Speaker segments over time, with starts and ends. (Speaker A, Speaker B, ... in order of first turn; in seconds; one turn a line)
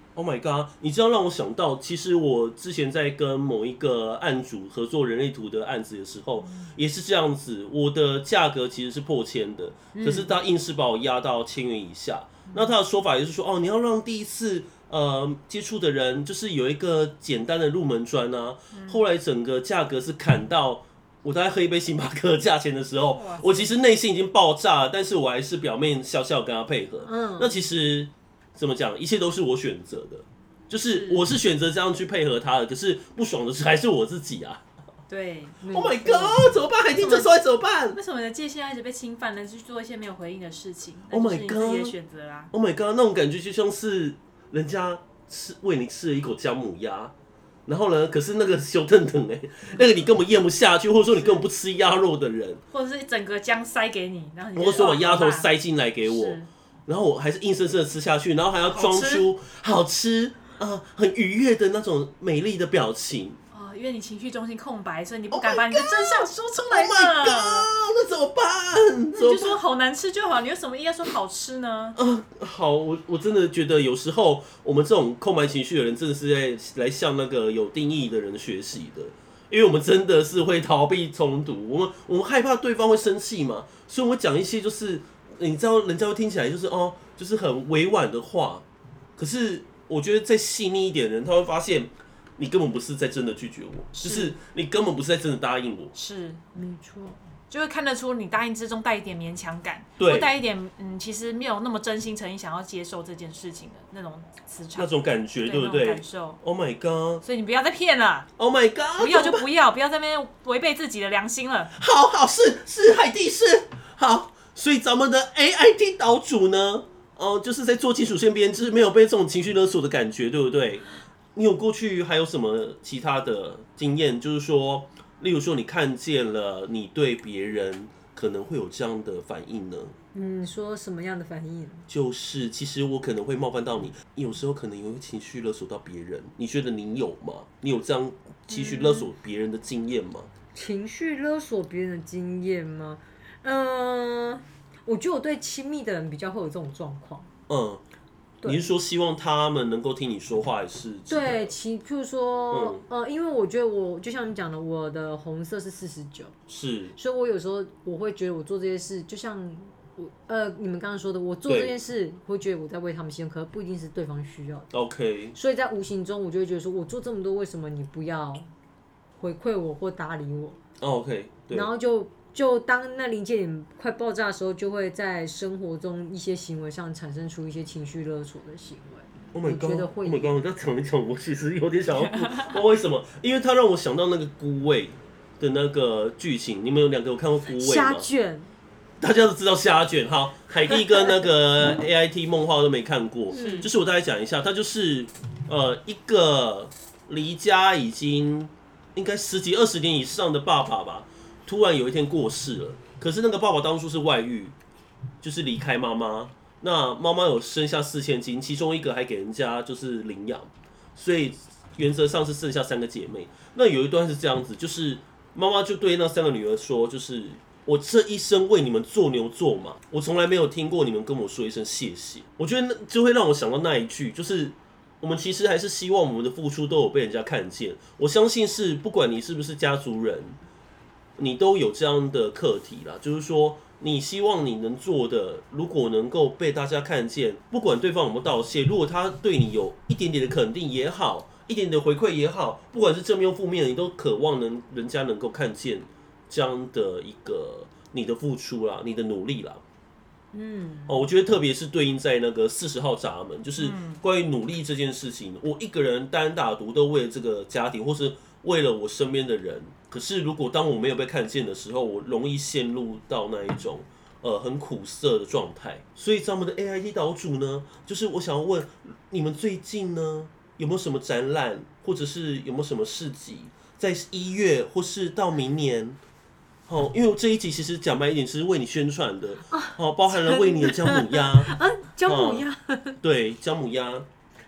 Speaker A: 0.1-34.6
Speaker B: 9.9-10.3
Speaker C: 18.7-19.0
Speaker C: 23.1-23.7
Speaker B: 27.0-27.6
Speaker C: 30.9-31.2
Speaker C: 35.1-35.6
Speaker B: 35.6-36.5
Speaker A: 35.7-38.0
Speaker C: 37.0-37.3
Speaker C: 37.9-42.5
Speaker A: 41.1-41.9
Speaker A: 42.5-47.1
Speaker A: 47.7-52.6
Speaker C: 51.1-51.4
Speaker C: 52.7-55.5
Speaker A: 54.5-63.4
Speaker C: 56.0-56.5
Speaker C: 58.7-59.3
Speaker C: 63.5-67.7
Speaker A: 65.3-69.6
Speaker C: 69.1-72.0
Speaker A: 72.0-88.6
Speaker A: 89.2-95.9
Speaker C: 94.0-94.3
Speaker C: 95.9-96.4
Speaker B: 96.5-97.2
Speaker C: 97.5-104.9
Speaker A: 100.0-100.3
Speaker A: 104.8-107.2
Speaker C: 105.4-106.4
Speaker C: 107.2-108.3
Speaker A: 108.4-109.5
Speaker C: 109.0-111.7
Speaker A: 111.8-129.9
Speaker B: 130.1-131.9
Speaker A: 131.9-140.3
Speaker C: 138.5-139.0
Speaker B: 140.5-147.3
Speaker A: 147.5-147.8
Speaker A: 148.4-151.5
Speaker B: 151.1-156.3
Speaker A: 152.5-152.8
Speaker A: 156.5-156.9
Speaker B: 156.9-164.7
Speaker A: 161.5-161.7
Speaker A: 164.7-165.3
Speaker B: 165.3-168.5
Speaker B: 169.2-170.6
Speaker A: 170.8-171.7
Speaker B: 171.5-180.3
Speaker A: 179.3-188.1
Speaker C: 182.0-182.5
Speaker B: 187.5-188.5
Speaker A: 189.0-204.5
Speaker B: 193.3-193.7
Speaker C: 193.3-193.7
Speaker A: 205.2-230.4
Speaker A: 231.2-249.6
Speaker B: 250.3-251.0
Speaker A: 250.9-276.0
Speaker C: 253.6-254.0
Speaker A: 276.7-281.5
Speaker B: 279.5-283.0
Speaker A: 282.1-282.4
Speaker A: 283.0-284.1